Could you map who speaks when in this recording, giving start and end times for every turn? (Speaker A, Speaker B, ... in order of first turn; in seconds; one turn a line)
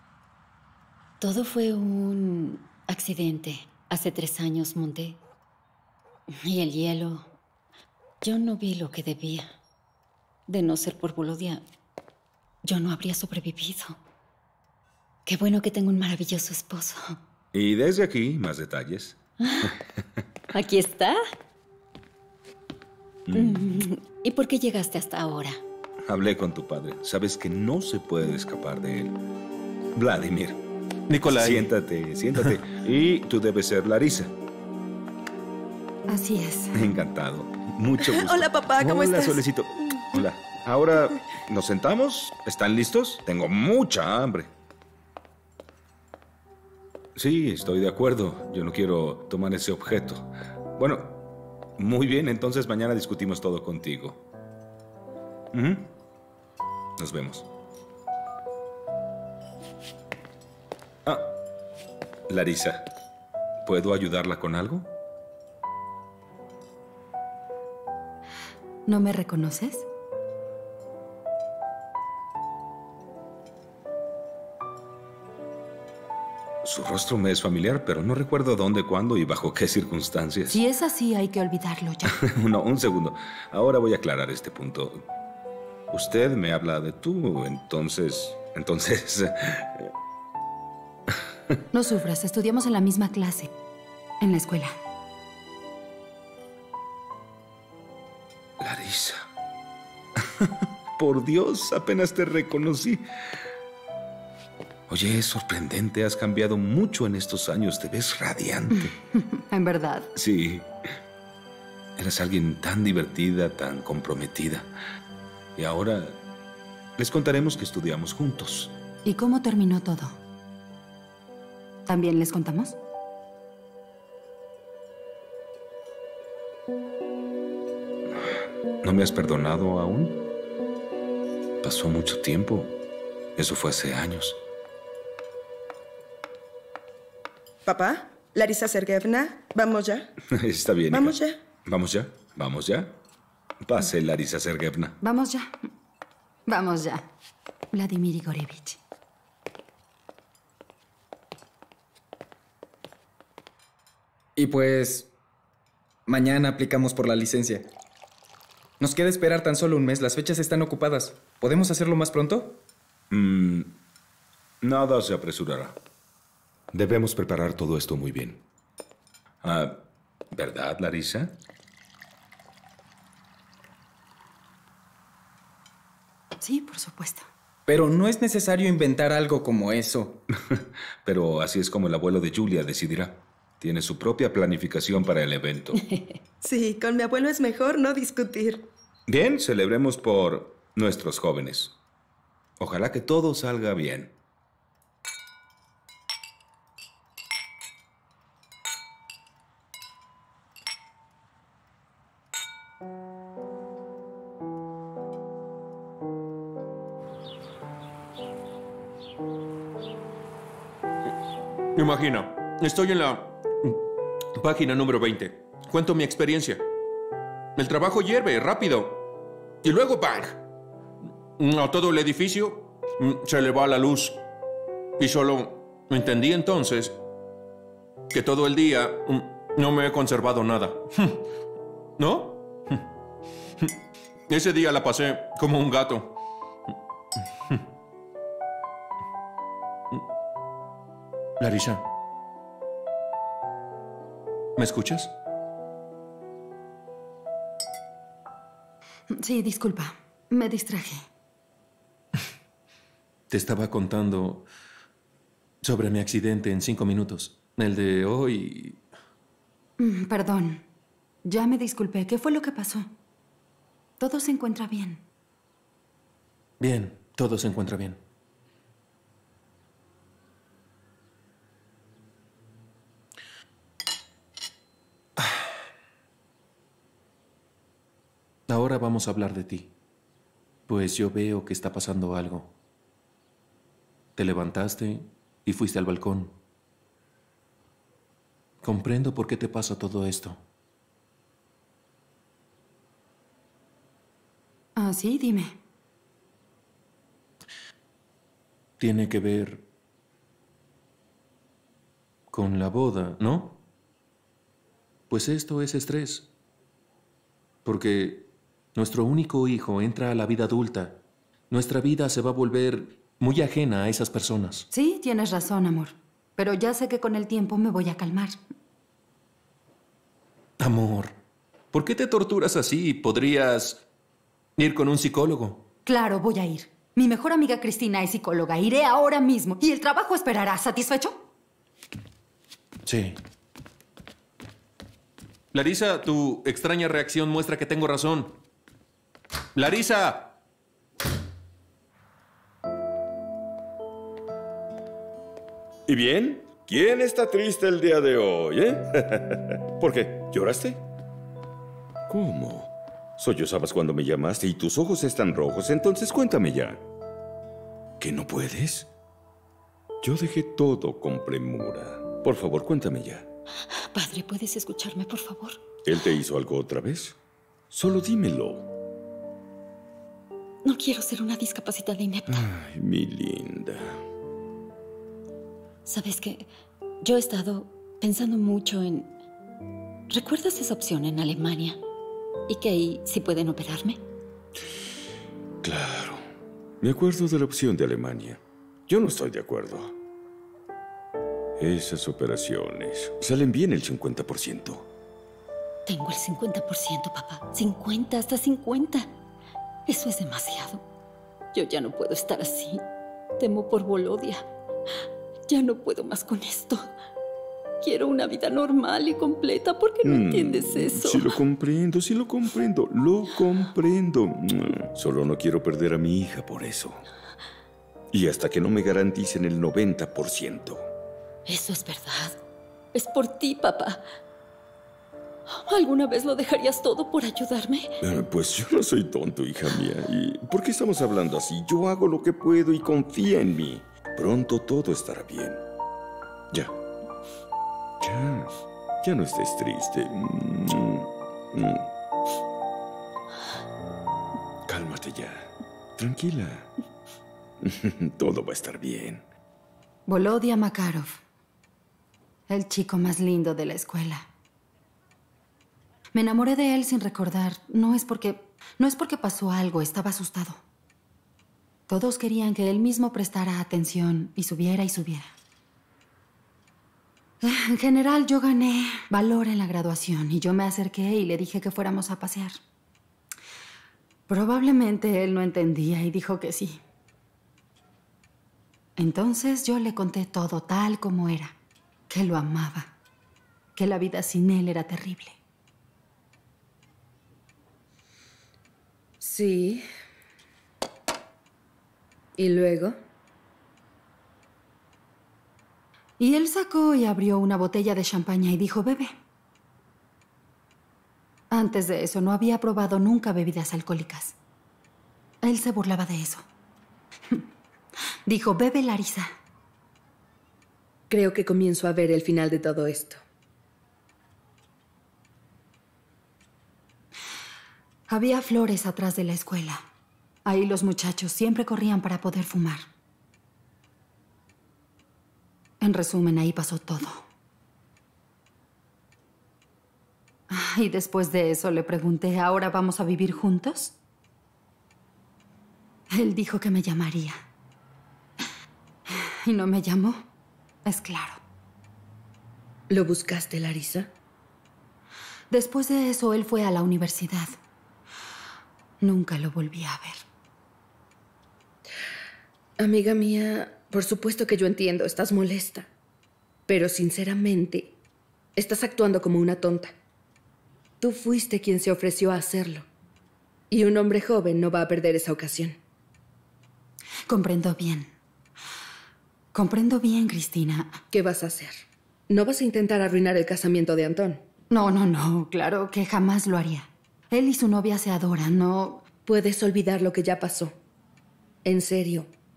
Speaker A: 1.2-5.2
Speaker A: 6.4-7.3
Speaker A: 8.2-9.5
Speaker A: 10.5-11.6
Speaker A: 12.6-14.0
Speaker A: 15.2-17.1
Speaker B: 17.5-19.8
Speaker A: 19.4-19.7
Speaker A: 20.5-21.2
Speaker B: 23.3-23.7
Speaker A: 23.3-25.6
Speaker B: 26.0-29.1
Speaker B: 29.9-30.6
Speaker C: 31.1-31.7
Speaker B: 31.2-34.3
Speaker D: 36.1-36.8
Speaker B: 36.7-44.5
Speaker E: 38.0-39.4
Speaker B: 47.1-51.2
Speaker B: 51.8-54.2
Speaker B: 55.5-55.9
Speaker B: 57.0-57.5
Speaker B: 61.0-61.4
Speaker B: 62.3-62.9
Speaker B: 63.6-64.9
Speaker D: 68.8-69.9
Speaker B: 76.6-80.6
Speaker D: 80.5-82.2
Speaker B: 82.1-85.0
Speaker B: 85.9-89.9
Speaker D: 91.7-93.5
Speaker D: 94.2-94.8
Speaker B: 98.6-99.3
Speaker B: 100.2-103.0
Speaker B: 104.9-108.9
Speaker D: 108.7-110.1
Speaker B: 110.1-110.7
Speaker B: 112.0-114.7
Speaker B: 115.5-116.2
Speaker B: 117.0-118.8
Speaker D: 119.0-120.2
Speaker D: 121.9-122.8
Speaker B: 128.8-130.2
Speaker B: 131.6-132.7
Speaker B: 133.3-134.4
Speaker E: 137.7-140.1
Speaker B: 140.3-143.0
Speaker E: 140.9-141.4
Speaker B: 143.6-145.0
Speaker D: 145.0-145.7
Speaker D: 146.5-147.1
Speaker D: 147.7-148.8
Speaker F: 154.4-155.1
Speaker F: 156.1-157.7
Speaker F: 158.8-162.6
Speaker B: 163.1-163.7
Speaker B: 164.6-165.8
Speaker B: 166.7-168.4
Speaker B: 169.4-171.4
Speaker D: 176.4-177.2
Speaker F: 177.7-180.2
Speaker B: 180.4-185.8
Speaker A: 185.7-186.1
Speaker E: 186.4-188.7
Speaker B: 189.1-191.7
Speaker B: 192.6-194.1
Speaker C: 211.7-213.8
Speaker C: 214.3-216.6
Speaker C: 217.6-219.0
Speaker C: 219.6-220.4
Speaker C: 221.4-224.2
Speaker C: 225.0-227.0
Speaker C: 228.1-231.2
Speaker C: 232.0-232.8
Speaker C: 234.3-236.2
Speaker C: 241.4-241.8
Speaker C: 244.6-245.1
Speaker D: 249.1-251.0
Speaker C: 253.3-254.4
Speaker C: 255.6-258.8
Speaker D: 259.8-260.6
Speaker D: 261.2-262.9
Speaker D: 264.0-265.0
Speaker C: 266.6-268.0
Speaker C: 278.5-279.7
Speaker C: 280.7-282.5
Speaker C: 284.1-286.3
Speaker C: 288.6-290.4
Speaker D: 294.8-295.6
Speaker C: 298.8-299.6
Speaker C: 302.3-303.6
Speaker C: 305.1-306.3
Speaker C: 307.6-314.7
Speaker D: 314.7-318.4
Speaker C: 320.6-321.1
Speaker C: 321.7-323.8
Speaker C: 324.6-325.6
Speaker D: 325.9-331.2
Speaker C: 332.9-333.2
Speaker C: 335.5-338.4
Speaker C: 339.5-340.3
Speaker G: 345.9-350.8
Speaker G: 352.1-356.8
Speaker G: 358.0-358.9
Speaker G: 360.0-363.3
Speaker A: 363.7-365.6
Speaker G: 365.8-367.1
Speaker G: 367.7-368.7
Speaker A: 370.6-372.4
Speaker G: 372.3-374.0
Speaker A: 375.9-376.5
Speaker A: 377.0-379.1
Speaker A: 380.1-381.8
Speaker A: 382.5-384.0
Speaker G: 385.6-386.2
Speaker G: 386.8-389.9
Speaker G: 391.6-394.9
Speaker A: 395.9-399.1
Speaker A: 399.9-400.8
Speaker A: 401.5-402.8
Speaker A: 403.4-404.5
Speaker A: 405.5-406.9
Speaker A: 407.8-411.4
Speaker G: 410.0-417.0
Speaker G: 418.1-420.9
Speaker A: 421.4-422.4
Speaker A: 422.9-424.0
Speaker A: 425.5-427.9
Speaker G: 428.0-435.6
Speaker G: 438.0-441.9
Speaker G: 444.7-446.7
Speaker G: 447.6-449.2
Speaker D: 450.1-451.2
Speaker D: 452.5-454.3
Speaker D: 456.1-460.6
Speaker D: 461.9-465.3
Speaker D: 467.4-472.6
Speaker D: 474.3-476.8
Speaker D: 479.0-481.5
Speaker D: 482.1-482.9
Speaker D: 483.8-485.4
Speaker H: 489.2-489.8
Speaker H: 492.4-493.0
Speaker D: 496.2-499.1
Speaker D: 501.5-504.3
Speaker D: 505.4-506.4
Speaker D: 508.2-509.3
Speaker H: 511.1-513.2
Speaker D: 518.1-519.8
Speaker D: 520.5-522.9
Speaker D: 525.8-527.2
Speaker D: 530.5-533.9
Speaker D: 536.1-537.4
Speaker D: 539.1-540.2
Speaker D: 540.8-541.4
Speaker H: 542.9-544.1
Speaker D: 545.5-547.5
Speaker D: 549.0-550.2
Speaker H: 552.8-555.9
Speaker H: 556.7-557.9
Speaker H: 558.5-559.9
Speaker H: 561.0-562.9
Speaker H: 563.7-565.8
Speaker D: 567.3-568.1
Speaker D: 569.5-571.0
Speaker H: 571.1-574.4
Speaker D: 574.7-579.0
Speaker H: 579.2-580.7
Speaker H: 581.6-582.3